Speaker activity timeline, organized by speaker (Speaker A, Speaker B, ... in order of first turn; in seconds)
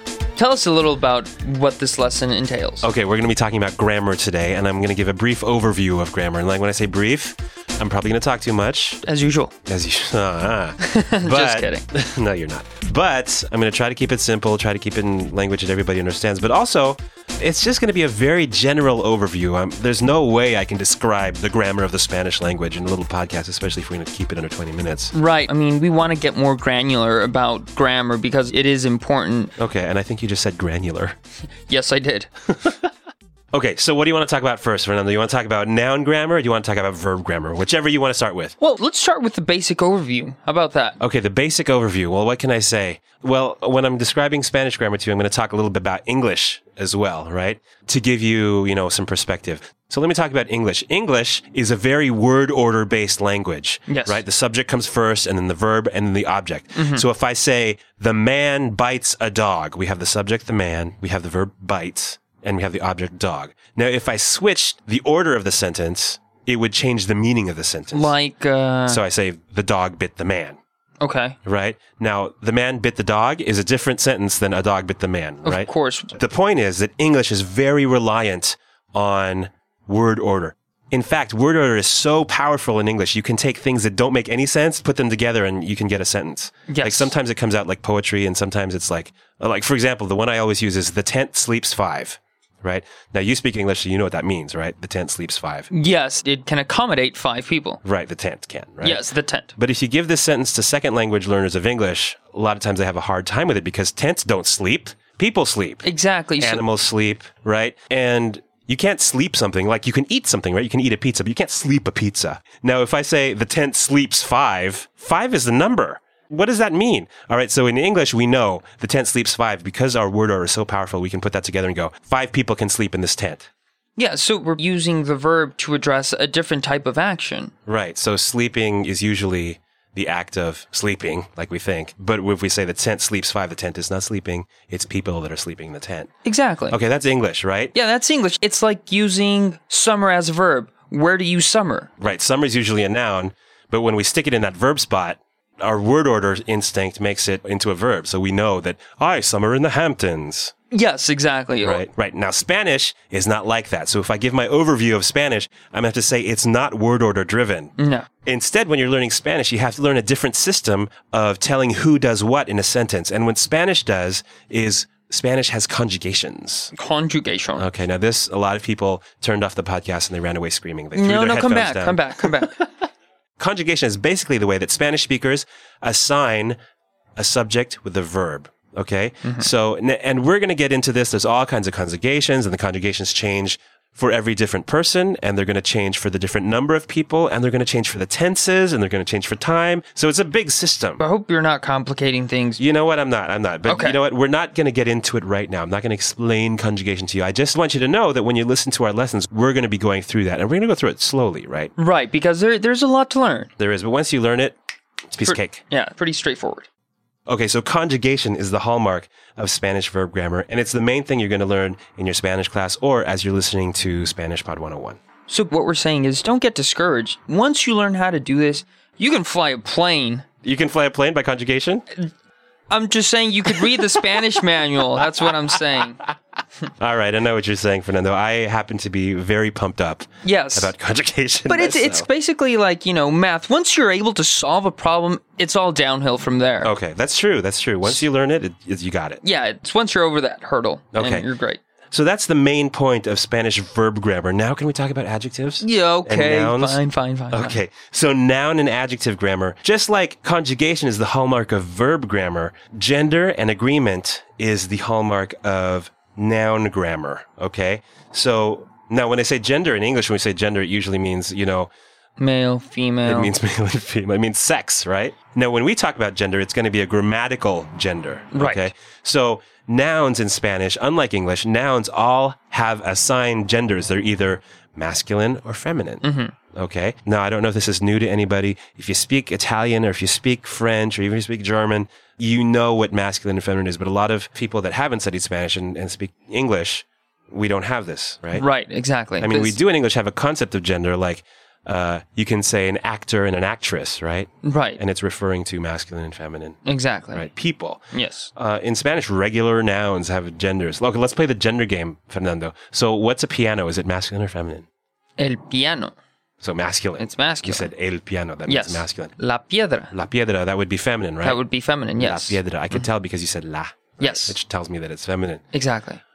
Speaker A: 0.3-2.9, 9.0-9.5, 10.8-11.8, 25.1-29.5, 31.7-32.3, 38.6-41.0, 53.9-54.2, 56.8-57.1, 67.9-69.0, 71.0-71.4, 75.5-76.2, 86.7-87.1, 95.7-97.8, 98.8-99.5, 105.8-106.6, 124.0-127.5, 136.2-136.8, 137.7-141.9, 150.7-151.8, 157.8-158.1, 166.7-167.7, 170.9-172.7, 179.2-179.5, 191.0-192.6, 193.7-194.0, 201.8-203.5, 205.2-206.7, 215.3-220.3, 222.7-226.0, 230.2-230.7, 231.5-236.7, 239.2-241.6, 245.6-247.6, 262.2-263.3, 268.3-268.7, 276.0-276.3, 288.3-289.6, 294.4-294.8, 296.6-297.3, 297.9-298.3, 305.2-305.9, 307.0-307.7, 308.5-309.9, 311.2-312.9, 314.0-314.4, 315.5-316.0
Speaker B: 2.8-9.0, 9.7-25.1, 29.6-31.1, 33.5-38.5, 41.0-68.1, 68.9-70.6, 71.5-95.7, 97.8-99.0, 99.6-105.8, 106.4-123.5, 127.7-136.1, 136.7-137.7, 142.0-150.5, 151.6-166.7, 167.6-172.3, 173.4-176.6, 177.2-191.0, 192.6-201.7, 203.6-204.6, 205.1-205.6, 207.3-215.0, 220.4-221.8, 226.8-232.1, 236.6-239.2, 240.9-241.3, 241.9-246.8, 247.3-261.7, 263.1-276.0, 276.6-288.4, 289.2-296.6, 297.1-297.8, 298.4-304.7, 306.4-309.1, 309.9-311.4, 312.0-315.4